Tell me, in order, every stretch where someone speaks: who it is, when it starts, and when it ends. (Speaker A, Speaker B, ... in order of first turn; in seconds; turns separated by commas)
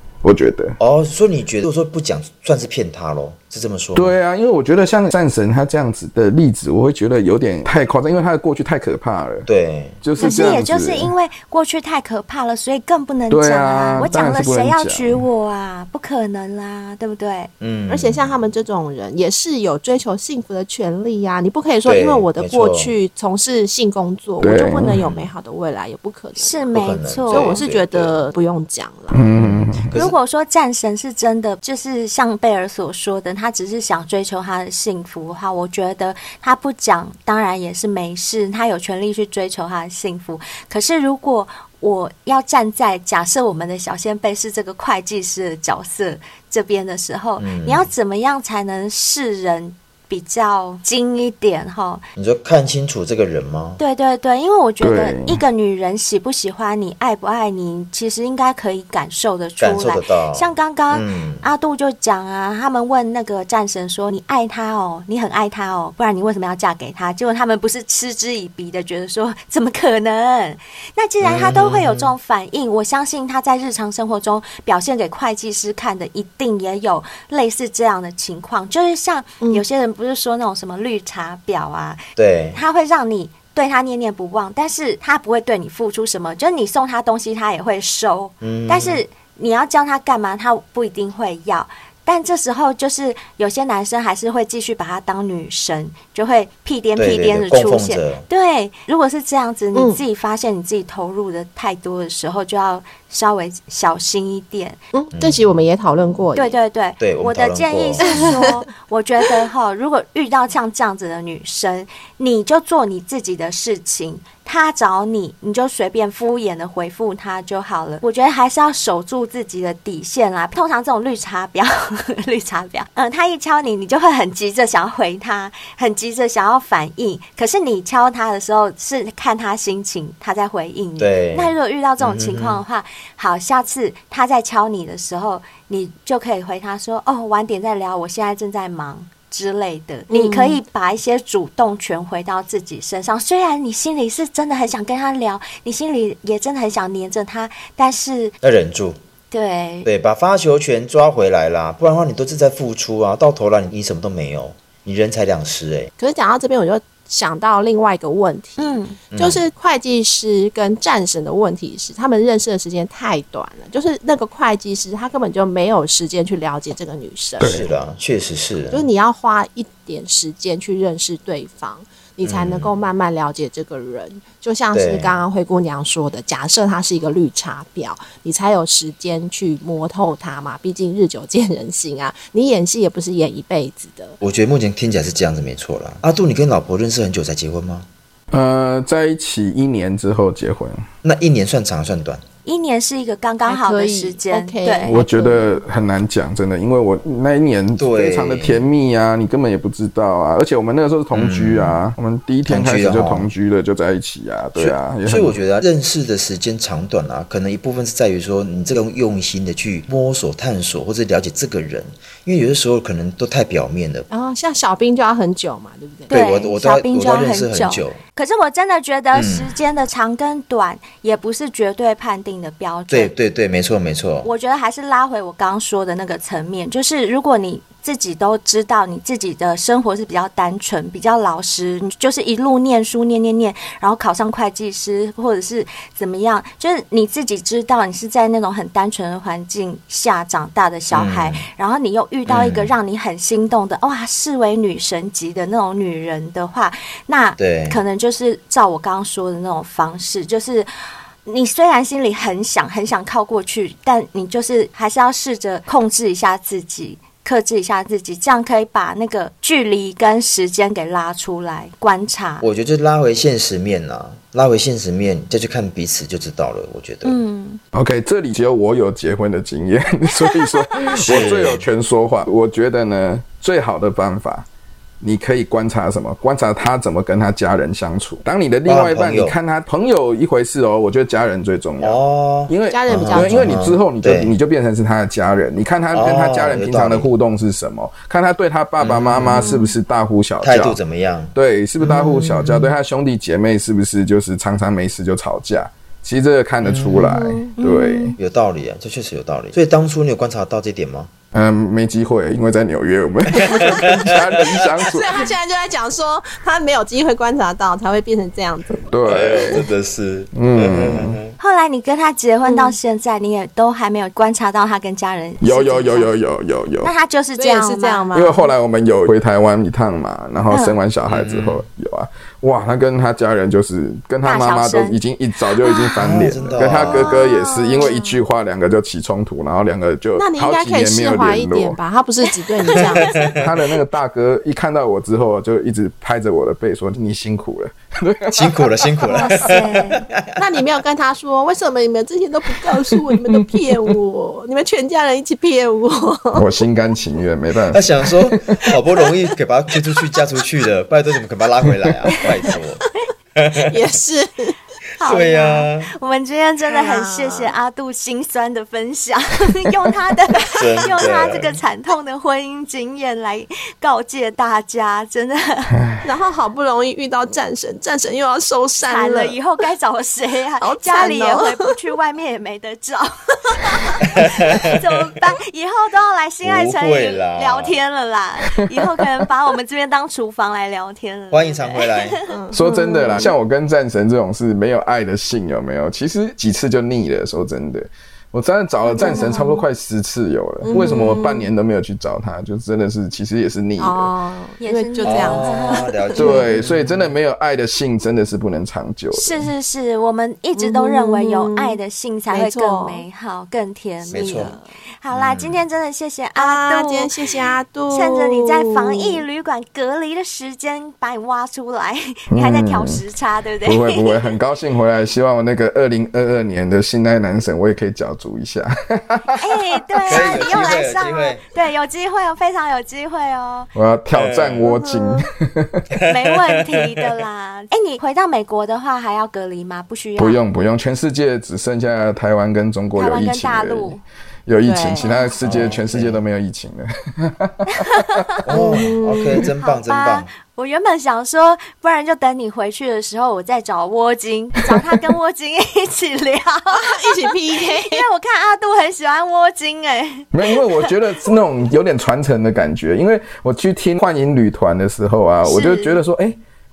Speaker A: 0.2-0.8, Speaker B: 0.8-4.2, Speaker A: 3.9-9.5, Speaker B: 9.4-10.0, Speaker A: 10.0-11.1, Speaker C: 10.2-17.5, Speaker D: 10.2-10.6, Speaker A: 13.3-15.2, Speaker B: 17.6-18.4, Speaker D: 17.9-29.2, Speaker B: 21.8-22.9, Speaker A: 24.4-25.0, Speaker B: 24.9-25.3, Speaker C: 26.4-27.6, Speaker B: 26.7-28.2, Speaker A: 29.1-29.9, Speaker B: 29.4-30.2, Speaker C: 29.9-52.0, Speaker B: 47.4-47.9, Speaker B: 52.1-53.8, Speaker C: 53.8-82.0, Speaker A: 54.8-55.4, Speaker B: 59.6-61.5, Speaker B: 71.2-72.1, Speaker B: 82.2-82.6, Speaker C: 82.5-104.8, Speaker B: 88.4-89.0, Speaker B: 97.0-98.3, Speaker D: 99.7-100.0, Speaker D: 104.9-106.6, Speaker B: 105.1-105.6, Speaker C: 106.3-148.3, Speaker B: 107.0-108.5, Speaker D: 108.0-108.6, Speaker B: 131.0-132.6, Speaker D: 140.1-140.6, Speaker B: 148.4-149.0, Speaker C: 149.3-149.9, Speaker B: 149.8-155.9, Speaker D: 156.0-167.5, Speaker C: 158.6-159.0, Speaker B: 159.1-159.4, Speaker A: 167.4-167.7, Speaker B: 167.4-168.9, Speaker D: 168.7-184.2, Speaker B: 172.2-172.7, Speaker B: 174.7-175.2, Speaker B: 184.2-187.9, Speaker A: 188.3-190.9, Speaker B: 191.0-192.2, Speaker C: 192.4-194.9, Speaker D: 193.5-195.6, Speaker A: 194.9-205.4, Speaker B: 197.8-198.7, Speaker B: 201.1-201.8, Speaker B: 202.5-203.3, Speaker B: 204.6-214.1, Speaker D: 214.1-216.2, Speaker C: 216.1-223.1, Speaker B: 216.1-218.0, Speaker B: 219.1-219.5, Speaker B: 222.9-224.3, Speaker C: 224.2-250.7, Speaker B: 240.9-241.5, Speaker B: 242.3-242.7, Speaker B: 247.4-247.8, Speaker C: 251.2-262.4, Speaker B: 262.4-267.2, Speaker C: 267.0-267.6, Speaker A: 267.7-274.4, Speaker C: 270.6-271.2, Speaker B: 270.9-271.6, Speaker A: 275.0-290.8, Speaker B: 278.6-279.4, Speaker B: 281.8-284.4, Speaker D: 282.7-283.7, Speaker B: 285.9-287.1, Speaker B: 288.8-289.5, Speaker D: 289.3-289.8, Speaker B: 290.4-292.7, Speaker A: 291.3-298.2, Speaker B: 296.6-297.2, Speaker D: 297.1-297.5, Speaker C: 297.6-298.2, Speaker B: 298.2-301.1, Speaker A: 301.3-305.3, Speaker B: 303.4-304.8, Speaker D: 304.8-308.9, Speaker A: 308.9-309.7, Speaker B: 309.1-311.3, Speaker A: 310.3-311.2, Speaker C: 311.4-316.1, Speaker D: 312.4-312.8, Speaker A: 315.4-316.9, Speaker C: 316.8-318.1, Speaker D: 317.4-318.5, Speaker A: 318.1-331.8, Speaker C: 320.5-320.8, Speaker B: 321.1-321.6, Speaker C: 324.2-325.0, Speaker D: 325.7-328.2, Speaker B: 326.0-327.2, Speaker D: 330.2-333.1, Speaker C: 332.7-333.3, Speaker B: 333.1-333.5, Speaker A: 333.4-338.9, Speaker B: 338.3-340.2, Speaker C: 339.1-340.0, Speaker D: 340.3-346.4, Speaker A: 343.1-343.9, Speaker A: 346.3-348.6, Speaker B: 347.7-352.8, Speaker B: 353.3-353.9, Speaker D: 353.6-354.6, Speaker C: 355.0-365.7, Speaker B: 355.0-355.9, Speaker D: 356.7-357.5, Speaker B: 360.6-361.6, Speaker D: 366.0-369.4, Speaker C: 368.8-382.2, Speaker D: 370.6-371.7, Speaker B: 374.1-374.8, Speaker B: 376.4-377.8, Speaker B: 381.3-382.2, Speaker D: 382.3-383.3, Speaker A: 382.5-394.1, Speaker C: 388.8-389.6, Speaker D: 389.0-389.5, Speaker D: 390.6-391.5, Speaker D: 393.8-396.4, Speaker C: 394.6-395.9, Speaker B: 395.0-397.1, Speaker A: 396.1-399.5, Speaker C: 399.1-407.1, Speaker D: 400.6-401.8, Speaker D: 402.3-403.0, Speaker D: 404.0-404.6, Speaker B: 404.1-404.6, Speaker B: 405.1-405.6, Speaker D: 406.4-409.2, Speaker C: 407.9-414.2, Speaker A: 412.3-413.0, Speaker A: 413.6-419.8, Speaker C: 419.3-423.7, Speaker B: 420.1-421.5, Speaker A: 423.7-425.8, Speaker B: 424.1-424.7, Speaker D: 424.6-425.2, Speaker C: 426.1-430.4, Speaker A: 430.2-438.2, Speaker C: 432.9-434.0, Speaker D: 434.6-435.3, Speaker C: 435.0-435.4, Speaker B: 435.4-436.2, Speaker C: 437.7-438.4, Speaker B: 438.4-440.3, Speaker D: 438.5-439.4, Speaker C: 439.4-450.9, Speaker D: 446.7-448.1, Speaker A: 450.3-456.4, Speaker C: 455.4-456.0